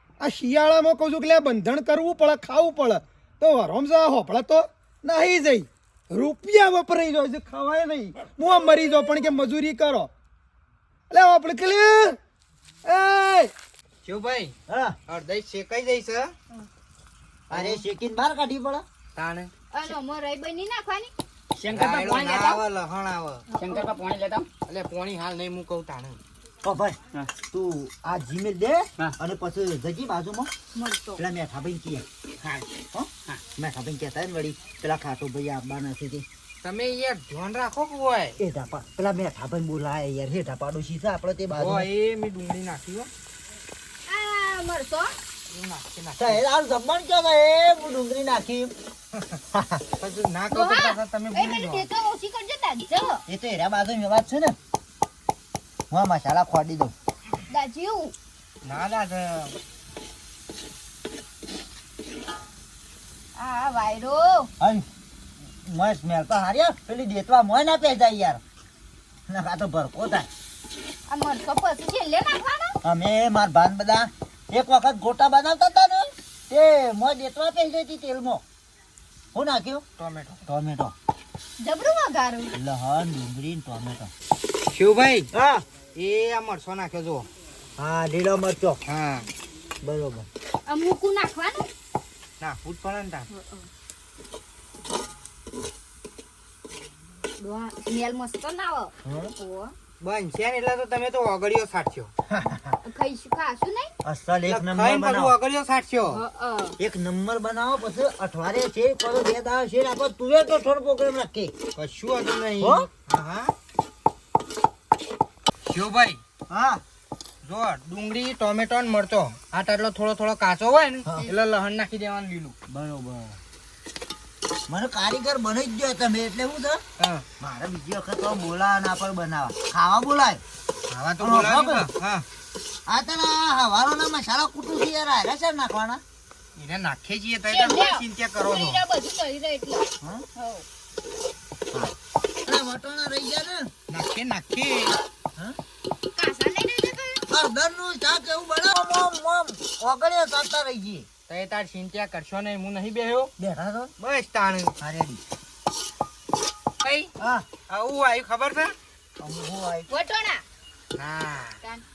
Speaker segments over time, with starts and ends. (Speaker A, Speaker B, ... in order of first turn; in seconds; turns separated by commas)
Speaker A: 0.2-10.1, Speaker A: 11.1-12.2, Speaker A: 12.8-13.5, Speaker B: 14.1-14.6, Speaker C: 14.7-15.0, Speaker B: 15.1-16.3, Speaker C: 17.5-18.9, Speaker B: 17.5-17.8, Speaker B: 19.2-19.5, Speaker D: 19.7-21.1, Speaker E: 21.6-22.6, Speaker B: 21.7-23.5, Speaker E: 23.5-24.5, Speaker B: 24.7-26.2, Speaker C: 26.6-30.5, Speaker D: 30.8-31.2, Speaker C: 31.2-32.1, Speaker E: 32.4-32.7, Speaker C: 32.9-36.3, Speaker B: 36.6-38.4, Speaker C: 38.4-41.9, Speaker B: 41.5-43.1, Speaker D: 44.1-45.1, Speaker B: 45.5-46.4, Speaker C: 46.2-48.7, Speaker B: 49.1-49.4, Speaker C: 49.5-49.9, Speaker B: 50.0-51.9, Speaker D: 50.5-53.2, Speaker C: 53.3-54.6, Speaker C: 55.9-56.9, Speaker D: 57.5-58.1, Speaker B: 58.6-59.5, Speaker D: 63.4-64.5, Speaker C: 64.6-64.8, Speaker C: 65.6-68.4, Speaker C: 69.3-70.3, Speaker D: 71.1-72.8, Speaker C: 72.8-78.4, Speaker C: 79.3-79.8, Speaker B: 80.0-80.4, Speaker C: 80.5-81.0, Speaker D: 81.6-82.5, Speaker C: 82.5-84.1, Speaker B: 84.7-85.3, Speaker C: 85.3-85.6, Speaker B: 86.0-87.3, Speaker C: 87.8-88.8, Speaker B: 88.9-89.3, Speaker C: 89.8-90.3, Speaker D: 90.7-91.7, Speaker B: 92.4-93.3, Speaker D: 93.3-93.7, Speaker D: 97.4-99.7, Speaker C: 99.0-99.3, Speaker B: 100.0-102.1, Speaker C: 102.3-102.8, Speaker D: 102.8-103.9, Speaker C: 104.0-105.3, Speaker B: 104.5-106.2, Speaker D: 106.1-106.8, Speaker C: 106.8-111.5, Speaker B: 111.8-113.5, Speaker C: 112.6-112.9, Speaker B: 115.6-116.2, Speaker C: 116.5-116.8, Speaker B: 117.4-122.5, Speaker C: 122.7-123.4, Speaker C: 124.7-126.8, Speaker B: 127.0-127.2, Speaker C: 127.4-130.4, Speaker B: 130.9-132.2, Speaker C: 131.2-131.9, Speaker C: 132.9-136.0, Speaker B: 136.6-138.8, Speaker D: 137.5-140.7, Speaker C: 140.0-140.3, Speaker C: 141.7-143.7, Speaker B: 143.9-145.0, Speaker D: 146.2-147.2, Speaker C: 147.3-151.1, Speaker B: 151.3-153.3, Speaker C: 153.4-153.9, Speaker B: 154.0-154.7, Speaker C: 154.8-155.2, Speaker D: 156.8-157.1, Speaker C: 157.2-157.5, Speaker B: 157.7-158.7, Speaker C: 159.2-159.9, Speaker D: 159.9-160.4, Speaker B: 160.9-161.6